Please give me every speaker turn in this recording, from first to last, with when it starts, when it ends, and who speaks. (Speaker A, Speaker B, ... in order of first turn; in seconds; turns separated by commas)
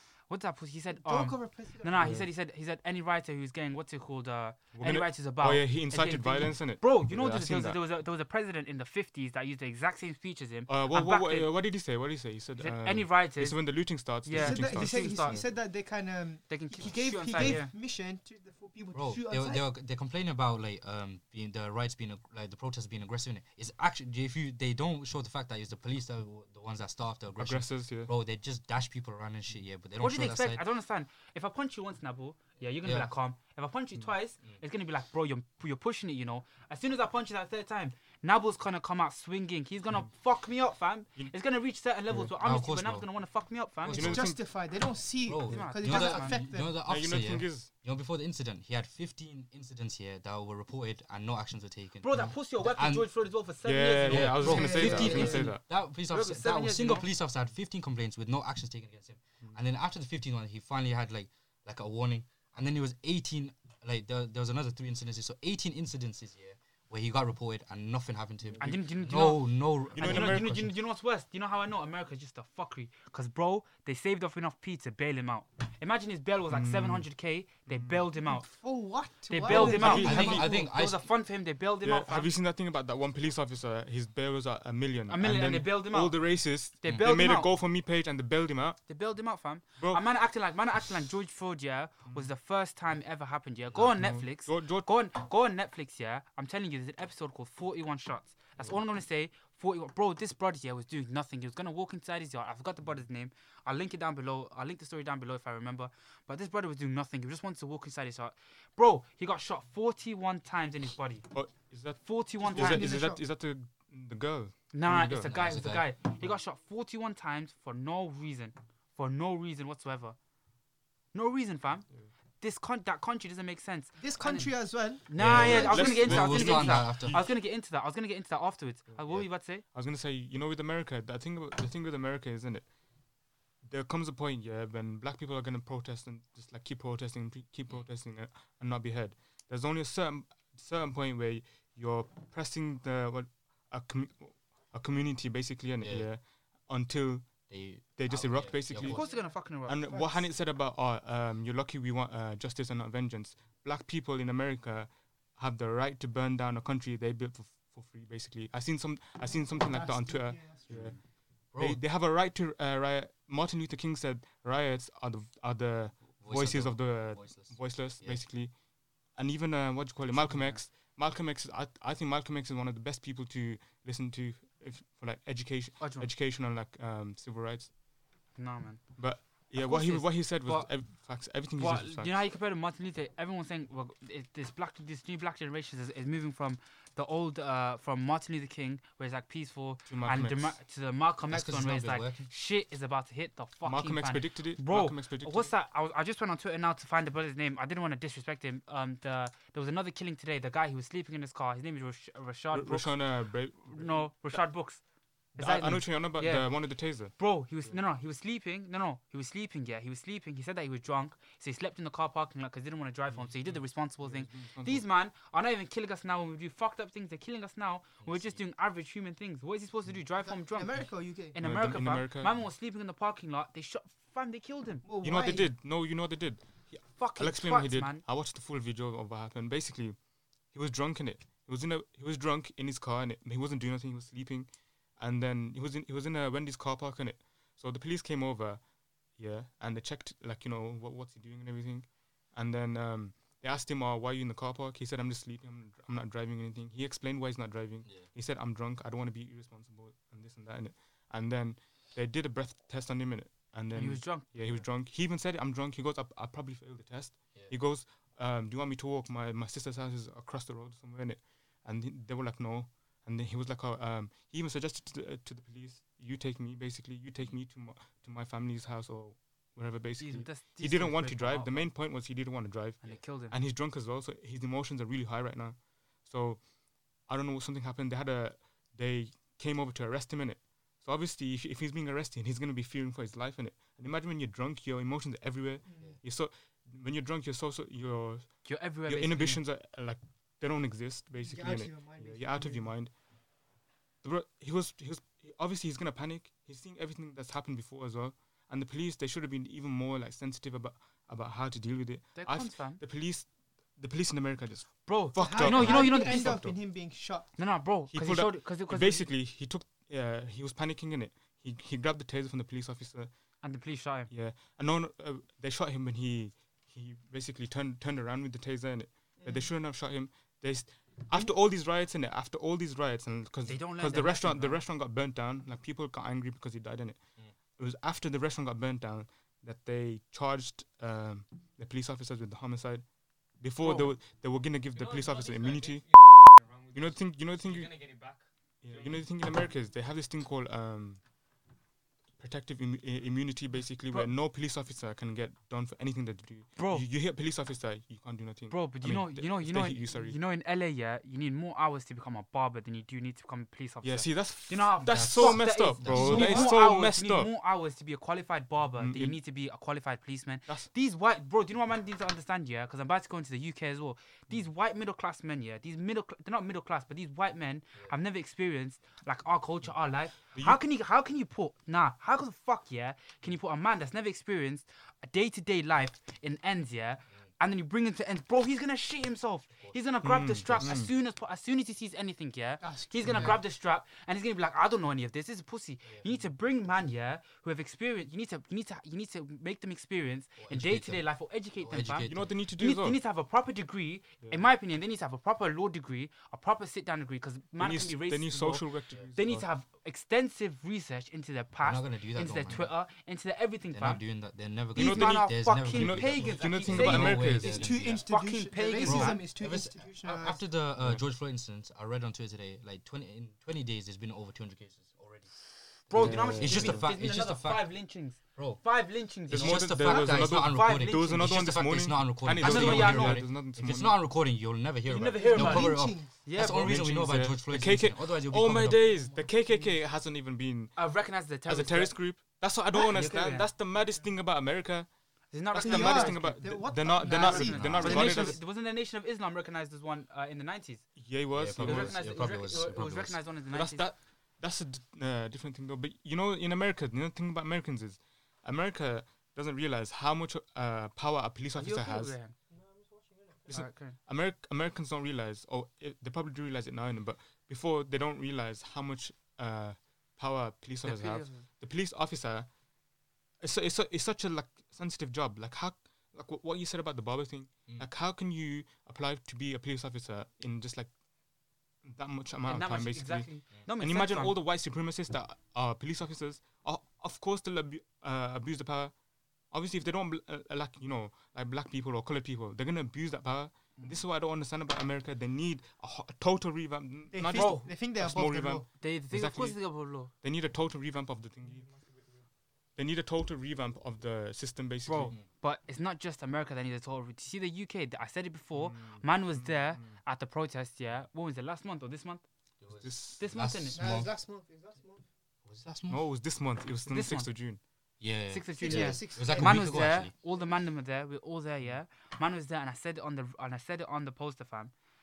Speaker A: 0.3-11.5, Speaker B: 0.9-2.2, Speaker C: 2.0-2.2, Speaker C: 4.7-7.8, Speaker C: 10.7-15.4, Speaker A: 12.6-13.6, Speaker A: 14.2-15.4, Speaker B: 14.3-19.6, Speaker A: 16.5-17.7, Speaker D: 18.9-30.6, Speaker C: 27.4-28.1, Speaker A: 30.0-44.1, Speaker D: 42.1-43.1, Speaker D: 43.8-44.3, Speaker C: 43.9-44.4, Speaker B: 43.9-46.8, Speaker D: 45.2-53.1, Speaker A: 45.4-46.3, Speaker C: 46.8-47.7, Speaker A: 52.0-55.4, Speaker C: 53.6-55.6, Speaker D: 54.1-70.8, Speaker B: 54.4-55.5, Speaker A: 56.1-57.1, Speaker C: 68.5-68.8, Speaker A: 68.6-78.5, Speaker C: 70.0-70.5, Speaker C: 76.5-77.0, Speaker C: 77.7-78.0, Speaker B: 78.2-80.6, Speaker A: 79.3-82.3, Speaker C: 79.4-80.5, Speaker D: 79.5-81.0, Speaker C: 81.8-88.8, Speaker A: 85.1-86.2, Speaker A: 86.8-87.5, Speaker A: 88.9-111.3, Speaker C: 93.7-94.9, Speaker C: 111.3-115.3, Speaker A: 112.0-112.9, Speaker B: 112.4-113.2, Speaker A: 114.7-120.2, Speaker D: 115.2-115.9, Speaker A: 121.1-121.8, Speaker A: 122.4-129.6, Speaker B: 124.0-125.6, Speaker D: 125.2-127.2, Speaker C: 125.2-127.3, Speaker C: 128.9-132.7, Speaker C: 133.7-149.0, Speaker D: 145.8-146.1, Speaker D: 147.5-149.0, Speaker A: 148.8-149.9, Speaker B: 148.9-149.3, Speaker C: 149.7-160.9, Speaker B: 149.8-150.2, Speaker B: 159.5-160.9, Speaker D: 160.7-161.8, Speaker C: 161.6-168.5, Speaker D: 166.2-168.2, Speaker C: 169.1-177.7, Speaker A: 170.1-170.6, Speaker A: 175.8-176.1, Speaker A: 178.3-180.7, Speaker C: 179.0-182.2, Speaker A: 181.5-203.0, Speaker C: 189.9-190.6, Speaker D: 191.3-192.3, Speaker C: 193.6-195.5, Speaker C: 202.5-204.4, Speaker A: 203.6-204.8, Speaker A: 205.3-224.8, Speaker C: 205.3-207.8, Speaker C: 213.3-214.8, Speaker D: 218.0-218.4, Speaker B: 220.2-221.4, Speaker C: 221.4-222.3, Speaker B: 224.8-225.5, Speaker C: 225.0-230.0, Speaker A: 227.0-228.0, Speaker C: 230.5-238.6, Speaker C: 239.2-276.4, Speaker A: 253.7-254.2, Speaker A: 270.0-271.7, Speaker A: 272.8-273.3, Speaker C: 277.1-292.9, Speaker B: 285.7-285.9, Speaker A: 288.4-289.4, Speaker B: 291.2-292.7, Speaker C: 294.0-306.6, Speaker A: 302.1-302.8, Speaker A: 304.9-306.4, Speaker B: 305.2-307.3, Speaker A: 307.4-309.1, Speaker C: 307.9-313.1, Speaker A: 313.4-314.1, Speaker C: 314.1-327.0, Speaker B: 319.2-319.5, Speaker A: 323.4-324.6, Speaker C: 327.6-332.8, Speaker C: 333.4-337.8, Speaker A: 333.6-333.9, Speaker E: 334.7-339.1, Speaker C: 338.6-341.0, Speaker C: 342.2-350.2, Speaker A: 346.6-346.8, Speaker A: 348.5-404.0, Speaker C: 353.8-357.3, Speaker D: 354.9-356.6, Speaker C: 358.8-359.1, Speaker C: 370.3-370.6, Speaker C: 380.0-380.9, Speaker B: 382.6-383.4, Speaker D: 383.0-383.4, Speaker D: 385.8-386.2, Speaker D: 390.4-391.1, Speaker D: 391.6-392.3, Speaker C: 392.1-393.0, Speaker C: 397.6-399.5, Speaker D: 401.6-402.7, Speaker D: 403.7-408.1, Speaker C: 404.7-407.6, Speaker A: 404.7-409.2, Speaker B: 407.4-410.4, Speaker D: 408.8-415.3, Speaker A: 415.9-421.2, Speaker D: 415.9-417.7, Speaker C: 415.9-416.9, Speaker D: 418.4-418.6, Speaker D: 419.3-429.0, Speaker C: 419.3-423.9, Speaker A: 422.4-423.2, Speaker A: 424.9-426.8, Speaker B: 425.2-426.1, Speaker C: 426.4-430.8, Speaker B: 428.7-429.8, Speaker A: 430.8-432.0, Speaker C: 431.4-434.9, Speaker A: 432.7-433.5, Speaker A: 435.3-436.2, Speaker C: 435.5-438.4, Speaker B: 435.5-438.4, Speaker A: 437.0-440.9, Speaker D: 437.5-438.2, Speaker C: 441.0-442.0, Speaker D: 441.3-443.2, Speaker A: 441.6-443.9, Speaker C: 443.5-452.1, Speaker A: 451.5-452.3, Speaker E: 452.5-453.6, Speaker C: 453.5-462.5, Speaker A: 453.5-454.0, Speaker A: 460.8-461.4, Speaker C: 463.4-470.9, Speaker C: 471.8-473.3, Speaker A: 472.4-474.3, Speaker C: 473.8-478.9, Speaker C: 479.5-491.6, Speaker B: 487.1-488.6, Speaker A: 487.3-487.7, Speaker A: 488.8-490.1, Speaker E: 491.4-492.2, Speaker C: 492.8-495.1, Speaker A: 494.9-502.2, Speaker C: 498.5-500.0, Speaker D: 502.6-504.1, Speaker C: 502.8-503.3, Speaker A: 503.2-503.8, Speaker B: 503.7-505.0, Speaker D: 505.4-506.0, Speaker C: 505.9-507.6, Speaker A: 506.9-507.3, Speaker D: 508.0-510.1, Speaker A: 508.3-514.7, Speaker B: 508.6-509.9